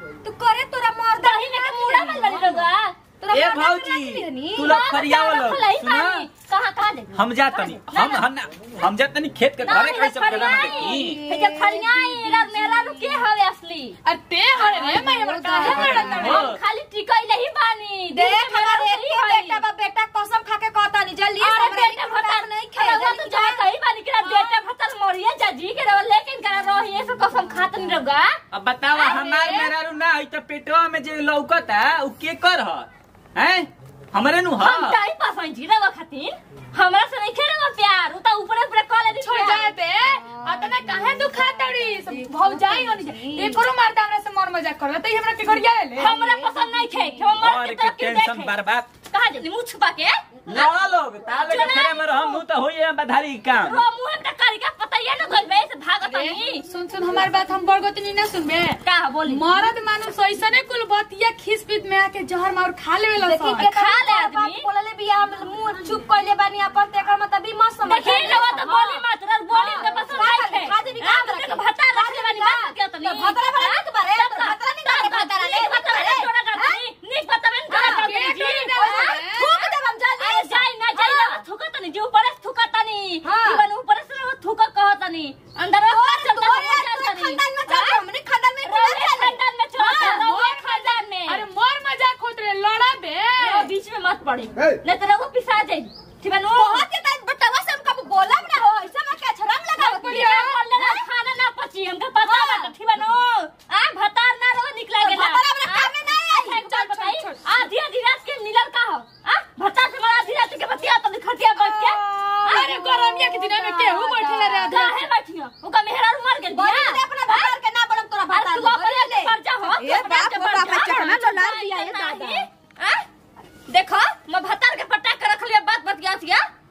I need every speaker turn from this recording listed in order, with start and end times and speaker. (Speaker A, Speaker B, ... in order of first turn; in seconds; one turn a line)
Speaker A: 0.2-2.7
Speaker B: 1.2-3.0
Speaker A: 3.2-4.8
Speaker C: 3.3-6.3
Speaker B: 4.6-8.2
Speaker C: 7.1-11.2
Speaker B: 9.6-14.0
Speaker A: 10.6-13.2
Speaker D: 14.0-16.3
Speaker A: 14.5-16.5
Speaker B: 15.6-19.6
Speaker C: 15.8-16.6
Speaker A: 18.1-23.7
Speaker B: 21.4-28.4
Speaker A: 24.2-24.6
Speaker C: 28.5-35.0
Speaker B: 28.9-29.7
Speaker A: 29.1-29.7
Speaker B: 34.6-39.8
Speaker D: 39.2-46.1
Speaker A: 40.2-40.9
Speaker A: 41.6-43.6
Speaker B: 46.0-48.5
Speaker A: 46.1-47.2
Speaker C: 47.4-48.9
Speaker B: 49.1-50.6
Speaker C: 50.5-53.8
Speaker B: 51.4-52.4
Speaker B: 53.6-56.6
Speaker D: 56.0-63.7
Speaker B: 58.8-59.6
Speaker A: 63.2-76.8
Speaker B: 63.5-64.6
Speaker B: 67.8-88.0
Speaker A: 77.7-81.4
Speaker D: 77.8-79.1
Speaker A: 83.2-83.7
Speaker A: 85.8-89.4
Speaker B: 88.6-91.4
Speaker D: 89.8-93.7
Speaker B: 93.4-96.9
Speaker A: 96.5-101.0
Speaker B: 99.8-112.7
Speaker D: 99.8-100.4
Speaker A: 102.2-102.7
Speaker A: 105.0-107.0
Speaker D: 106.8-107.4
Speaker A: 111.5-114.6
Speaker D: 112.5-115.1
Speaker B: 114.5-117.5
Speaker A: 116.5-122.5
Speaker B: 118.3-123.0
Speaker B: 123.7-126.5